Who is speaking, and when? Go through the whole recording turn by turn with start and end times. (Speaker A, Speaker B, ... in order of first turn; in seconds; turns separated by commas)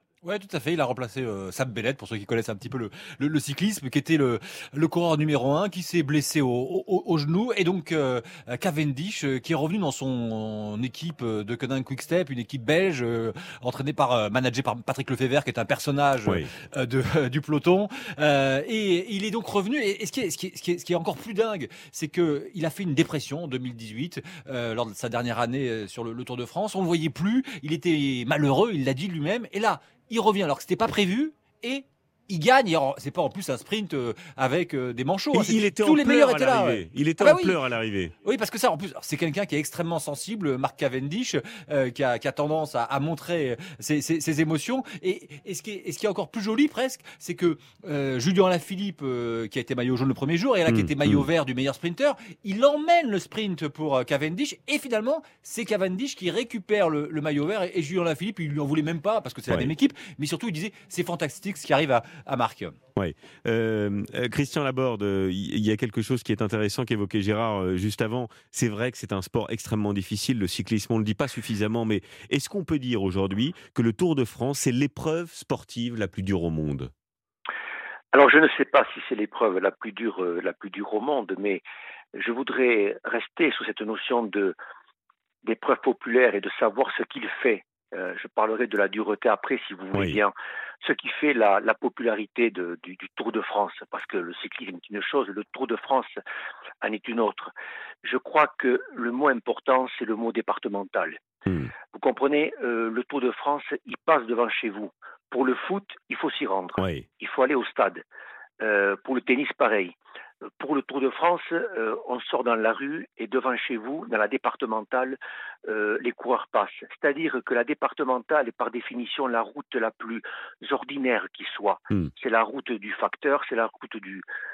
Speaker A: 0.2-37.4, Speaker B: 35.3-38.1, Speaker A: 38.2-62.8, Speaker B: 50.7-51.3, Speaker B: 63.0-76.9, Speaker C: 78.1-81.6, Speaker C: 82.1-84.5, Speaker C: 85.4-96.1, Speaker B: 89.9-90.2, Speaker C: 96.8-97.5, Speaker C: 98.0-101.2, Speaker B: 101.5-101.7, Speaker C: 101.9-108.0, Speaker B: 106.8-107.0, Speaker C: 108.6-109.9, Speaker C: 110.6-124.2